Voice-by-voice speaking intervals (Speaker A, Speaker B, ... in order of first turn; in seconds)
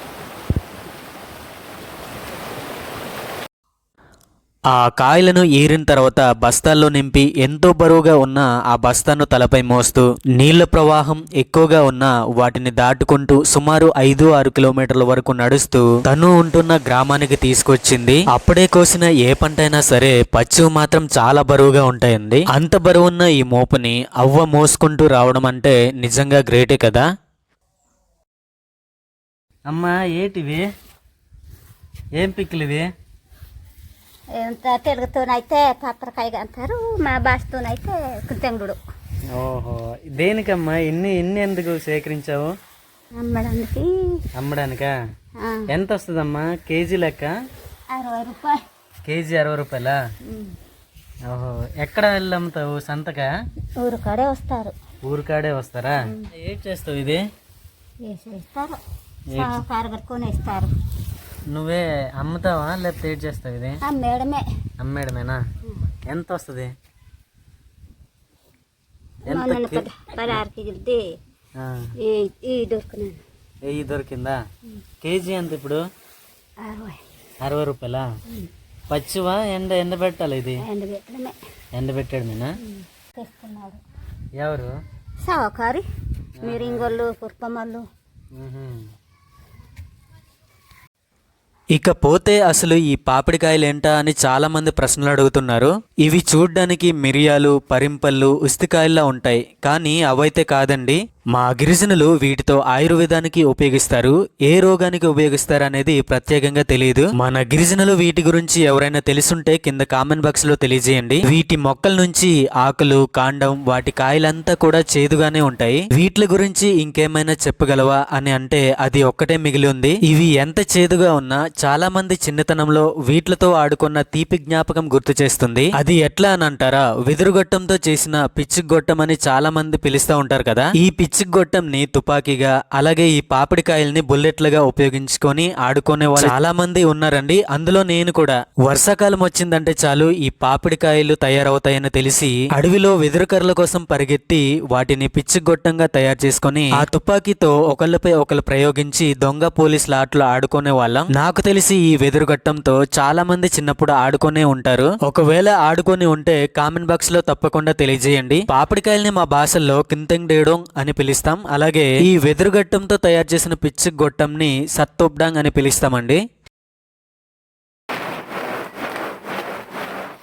Speaker A: 4.7-27.1, 91.7-166.2
Speaker B: 29.7-30.6, 32.2-32.9, 39.3-42.5, 44.4-44.9, 45.7-47.3, 49.0-50.0, 51.3-53.3, 55.0-57.2, 59.3-59.6, 61.5-63.8, 64.8-65.4, 66.1-66.7, 69.3-70.4, 71.6-71.9, 73.7-74.4, 75.0-75.8, 77.4-78.1, 78.9-80.6, 81.7-82.5, 84.4-84.7, 86.4-87.0, 88.4-88.8
Speaker C: 34.4-38.8, 43.2-44.2, 47.9-48.6, 50.3-50.6, 53.8-54.7, 58.1-58.8, 59.4-60.7, 63.8-64.5, 69.3-71.1, 72.0-73.2, 76.6-77.0, 80.6-81.4, 82.6-83.8, 85.2-85.8, 86.4-87.8